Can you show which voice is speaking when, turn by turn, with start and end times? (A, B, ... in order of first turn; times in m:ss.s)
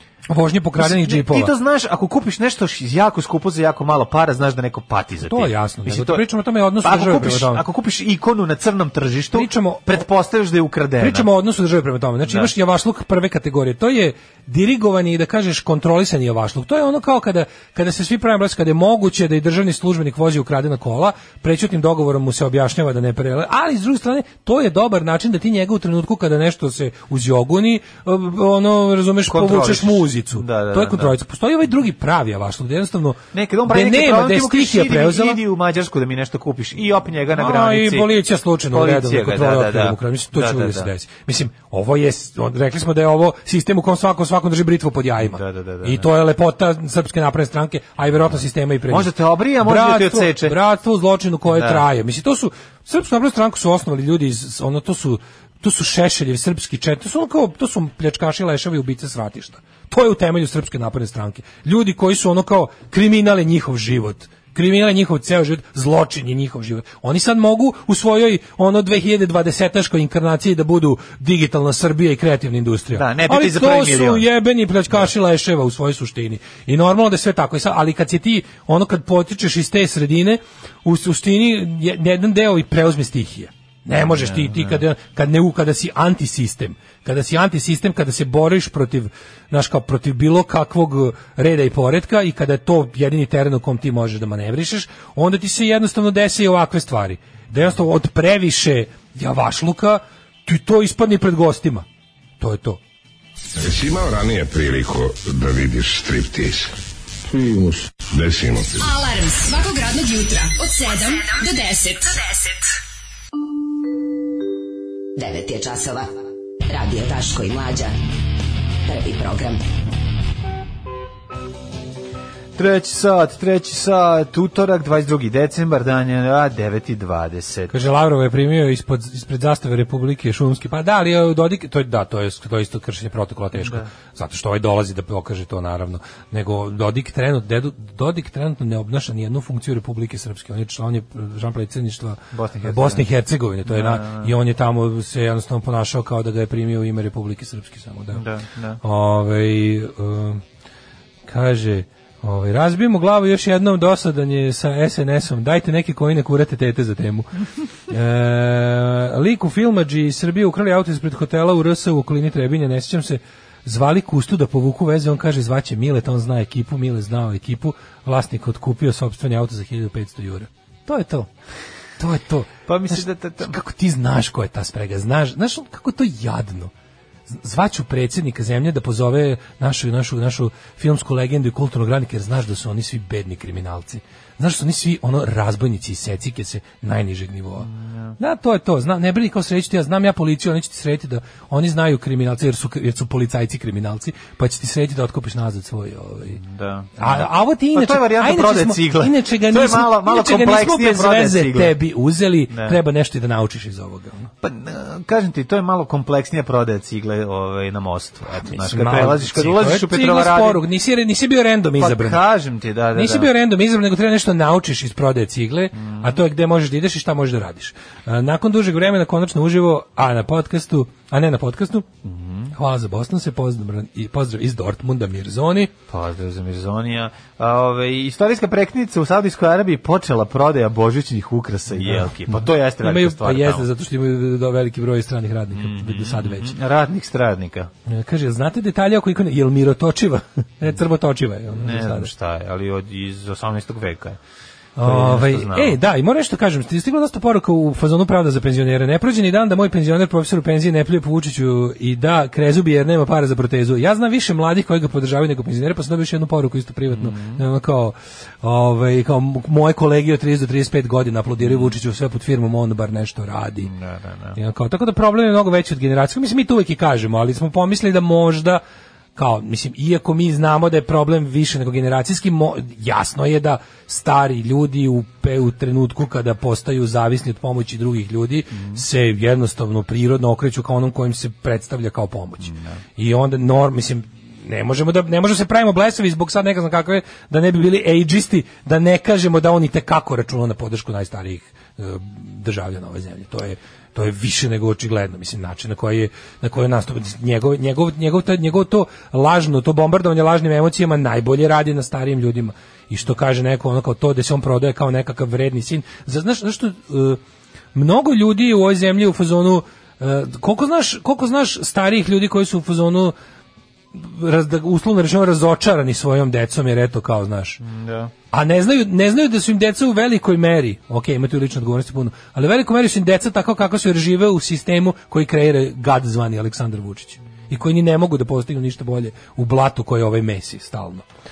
0:00.3-0:01.5 A
0:00.8-0:06.2 B
0:05.2-0:07.6 A
0:06.8-0:11.3 B
0:09.3-0:10.0 A
0:11.0-0:35.4 A
0:12.2-0:12.5 B
0:29.2-0:31.2 B
0:33.3-0:38.1 B
0:37.3-1:41.8 A
0:38.7-0:40.9 B
0:45.2-0:46.1 B
0:48.9-0:50.6 B
0:51.5-0:51.8 B
1:12.9-1:14.2 B
1:24.0-1:24.8 B
1:42.4-1:42.8 A
1:43.6-1:46.7 C
1:47.3-1:48.9 C
1:48.8-1:52.6 D
1:55.2-1:56.1 E
1:56.7-1:57.9 E
1:58.9-1:59.6 E
2:02.6-2:07.7 B
2:07.7-2:28.2 A
2:13.6-2:13.9 B
2:22.3-2:23.0 B
2:23.6-2:24.3 B
2:28.1-2:28.8 B
2:28.8-2:30.4 A
2:31.3-2:37.3 A
2:37.9-2:51.3 A
2:52.0-2:56.7 A
2:52.7-2:53.5 B
2:57.3-3:16.4 A
3:07.6-3:08.1 B
3:16.4-3:21.7 B
3:17.0-3:24.3 A
3:22.5-3:22.8 B
3:24.4-3:30.6 B
3:28.5-3:32.2 A
3:31.8-3:33.3 B
3:32.9-3:41.8 A
3:35.7-3:36.2 B
3:42.0-3:42.5 B
3:42.5-3:45.7 A
3:45.9-3:53.7 B
3:51.7-3:56.5 A
3:55.5-3:57.7 B
3:57.9-4:02.1 A
4:01.5-4:04.2 B
4:04.8-4:23.7 A
4:04.8-4:05.8 B
4:16.9-4:17.4 B
4:21.4-4:21.7 B
4:23.6-4:24.4 B
4:24.3-4:28.6 A
4:29.2-5:07.2 A
4:38.5-4:38.8 B
4:42.4-4:42.8 B
5:07.7-5:13.1 A
5:13.9-5:17.6 A
5:17.6-5:18.1 B
5:18.3-5:31.0 A